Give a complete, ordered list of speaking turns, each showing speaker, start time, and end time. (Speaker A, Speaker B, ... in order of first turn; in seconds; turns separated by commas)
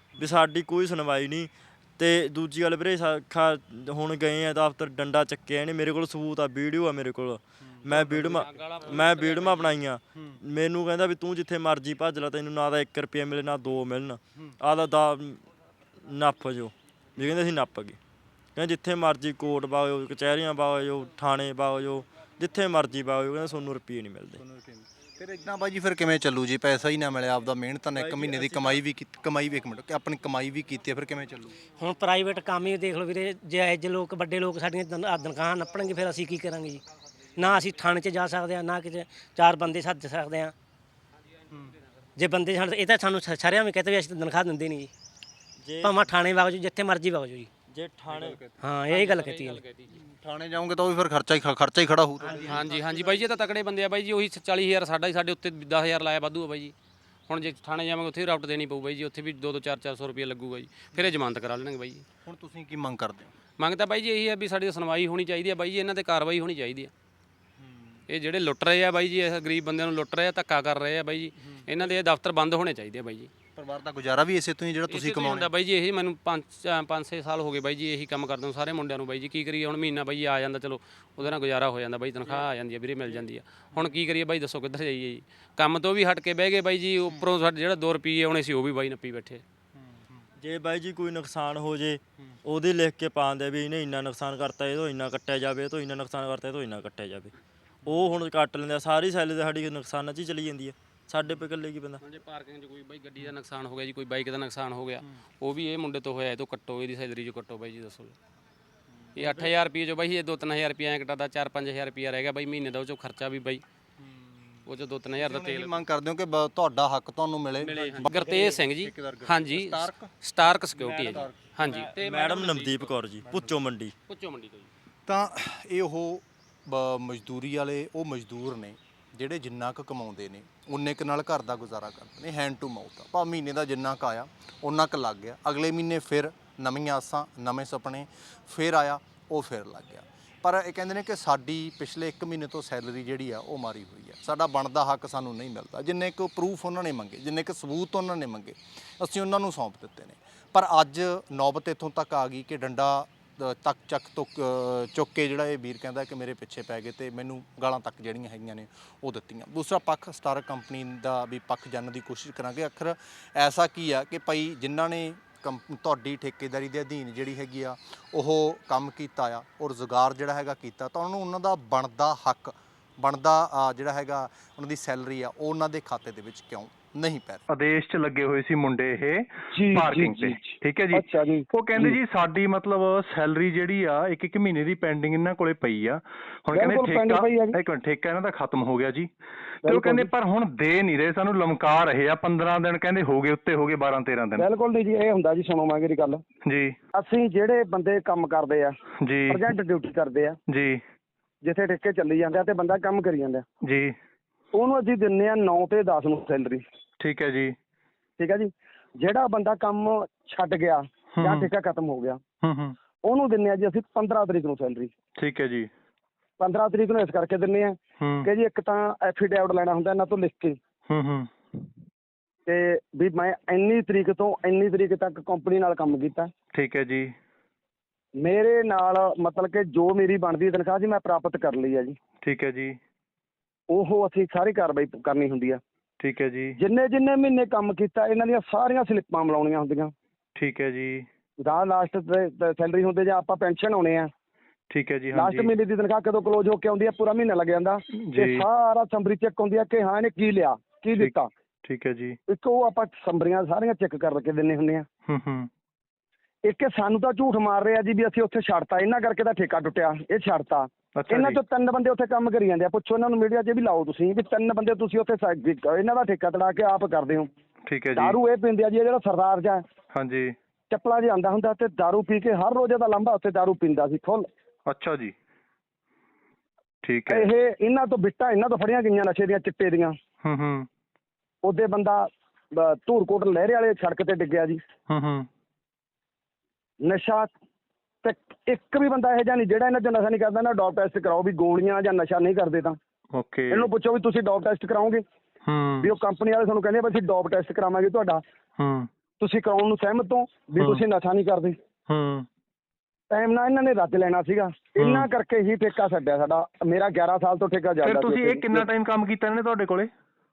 Speaker A: 0.1-0.4, Speaker B: 0.2-15.4, Speaker A: 7.6-8.0, Speaker C: 7.9-9.7, Speaker B: 16.0-18.0, Speaker B: 18.6-24.4, Speaker A: 24.4-31.6, Speaker B: 27.9-28.8, Speaker D: 31.8-36.8, Speaker D: 37.4-40.5, Speaker A: 41.5-41.7, Speaker D: 42.2-44.9, Speaker B: 45.6-46.1, Speaker D: 45.8-47.5, Speaker B: 47.7-48.4, Speaker A: 48.1-48.6, Speaker D: 48.6-49.6, Speaker C: 48.9-50.0, Speaker A: 49.9-53.2, Speaker C: 52.4-56.7, Speaker C: 57.3-62.0, Speaker A: 62.2-63.3, Speaker C: 63.6-66.9, Speaker A: 67.6-68.0, Speaker C: 68.1-73.3, Speaker A: 71.4-71.7, Speaker A: 73.5-75.5, Speaker C: 74.9-89.4, Speaker A: 89.8-90.2, Speaker B: 90.4-97.3, Speaker B: 97.8-102.0, Speaker C: 102.0-108.2, Speaker A: 109.0-109.5, Speaker C: 109.1-113.6, Speaker A: 114.0-120.1, Speaker C: 114.7-115.8, Speaker C: 117.6-122.9, Speaker A: 120.7-121.9, Speaker B: 121.7-123.9, Speaker A: 123.2-123.5, Speaker C: 124.1-124.7, Speaker A: 125.0-177.4, Speaker E: 177.5-189.1, Speaker F: 179.5-182.0, Speaker F: 186.5-187.6, Speaker E: 189.6-194.5, Speaker F: 189.6-190.1, Speaker F: 194.4-196.2, Speaker E: 196.4-196.8, Speaker F: 196.9-198.8, Speaker E: 199.0-199.5, Speaker F: 199.3-200.4, Speaker E: 200.5-200.8, Speaker F: 201.4-203.4, Speaker E: 203.6-203.9, Speaker F: 204.5-206.6, Speaker E: 207.0-207.5, Speaker F: 208.2-212.2, Speaker E: 211.1-211.5, Speaker E: 212.4-212.7, Speaker F: 213.0-214.9, Speaker E: 215.2-215.7, Speaker F: 216.4-220.6, Speaker E: 218.0-218.3, Speaker E: 220.9-221.3, Speaker F: 222.4-226.3, Speaker E: 226.5-227.1, Speaker F: 228.2-232.0, Speaker E: 232.2-232.8, Speaker F: 233.7-235.6, Speaker E: 236.0-236.6, Speaker F: 236.6-239.9, Speaker E: 240.3-241.1, Speaker F: 241.4-244.1, Speaker E: 244.7-245.5, Speaker F: 245.1-251.3, Speaker E: 247.9-248.5, Speaker E: 251.6-252.2, Speaker F: 252.3-254.9, Speaker E: 255.1-255.5, Speaker F: 256.4-267.3, Speaker E: 260.9-261.4, Speaker E: 267.6-268.2, Speaker F: 267.9-269.6, Speaker E: 269.9-270.3, Speaker F: 270.7-274.3, Speaker E: 274.7-275.1, Speaker E: 276.8-277.3, Speaker F: 277.1-280.0, Speaker E: 280.2-280.7, Speaker F: 281.4-284.6, Speaker E: 284.9-285.3, Speaker F: 286.8-287.3, Speaker F: 288.0-292.8, Speaker E: 293.1-293.7, Speaker F: 293.5-295.0, Speaker E: 295.4-295.9, Speaker F: 295.8-298.2, Speaker E: 298.6-298.9, Speaker F: 299.2-301.6, Speaker E: 301.9-302.3, Speaker F: 303.1-308.7, Speaker E: 304.8-305.1, Speaker E: 307.8-309.9